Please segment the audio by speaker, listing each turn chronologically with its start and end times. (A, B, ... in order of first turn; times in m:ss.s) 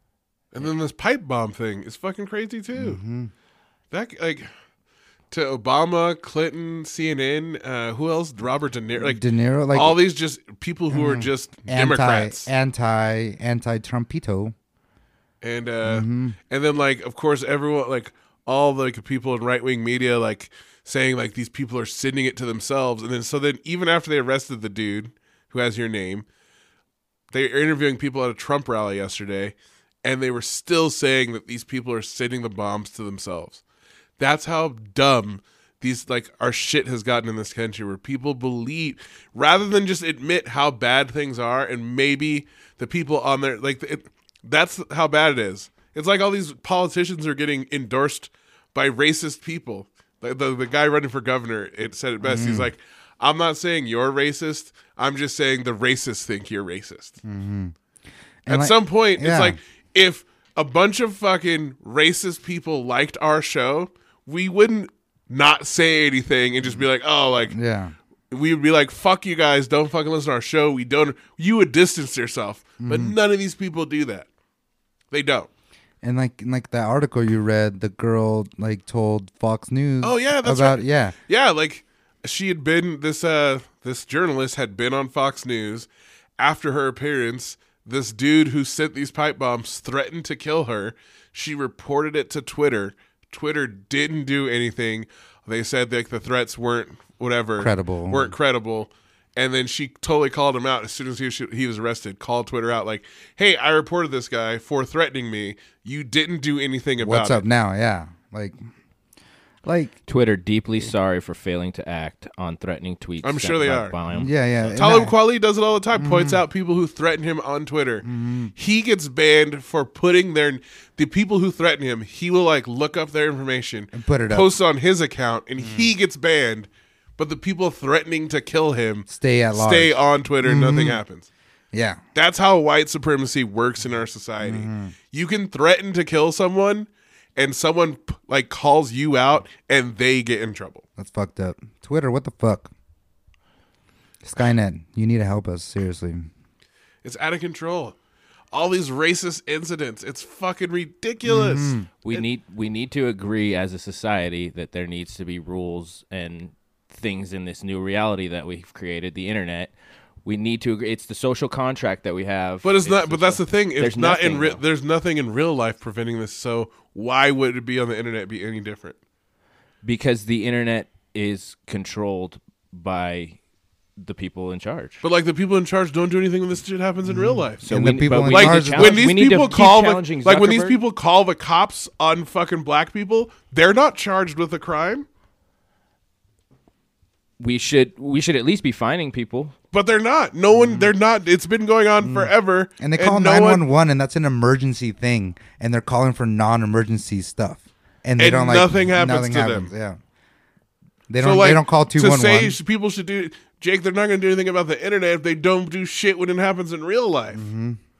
0:00.5-0:03.0 A
0:02.7-0:03.3 B
0:03.9-0:04.5 A
0:05.3-0:09.2 A
0:09.0-0:10.0 B
0:09.7-0:12.5 A
0:10.9-0:14.5 B
0:15.4-0:26.2 A
0:15.8-0:16.4 B
0:27.3-0:33.6 A
0:34.2-0:57.2 A
0:52.2-0:52.7 B
0:57.2-0:57.7 B
0:58.4-0:59.6 B
0:58.5-1:07.5 A
1:07.5-1:07.9 B
1:08.3-1:14.3 A
1:12.8-1:13.2 B
1:15.1-1:15.5 A
1:16.0-1:21.1 B
1:20.0-1:25.9 A
1:26.4-1:47.4 A
1:37.6-1:38.3 B
1:47.0-1:48.6 B
1:49.6-1:50.0 B
1:50.1-1:54.3 C
1:53.2-1:53.9 A
1:54.1-1:55.2 B
1:54.7-2:11.3 A
1:55.9-1:56.4 B
1:58.0-1:58.5 B
2:03.9-2:04.5 B
2:05.6-2:05.9 B
2:09.1-2:11.0 B
2:11.7-2:12.0 B
2:12.1-2:20.8 A
2:14.4-2:14.9 B
2:21.0-2:22.7 B
2:24.2-2:26.3 B
2:27.0-2:28.0 A
2:28.5-2:32.2 A
2:31.2-2:31.9 B
2:32.0-2:39.7 C
2:40.2-2:44.6 C
2:42.6-2:49.0 A
2:49.8-2:53.4 C
2:54.0-2:55.0 C
2:55.0-3:05.0 A
2:57.0-2:59.0 B
2:57.6-3:00.8 C
3:07.4-3:09.5 C
3:09.7-3:13.6 A
3:10.5-3:10.9 B
3:12.0-3:20.0 B
3:18.2-3:19.7 A
3:21.1-3:22.6 B
3:21.2-3:27.4 A
3:27.3-3:27.8 B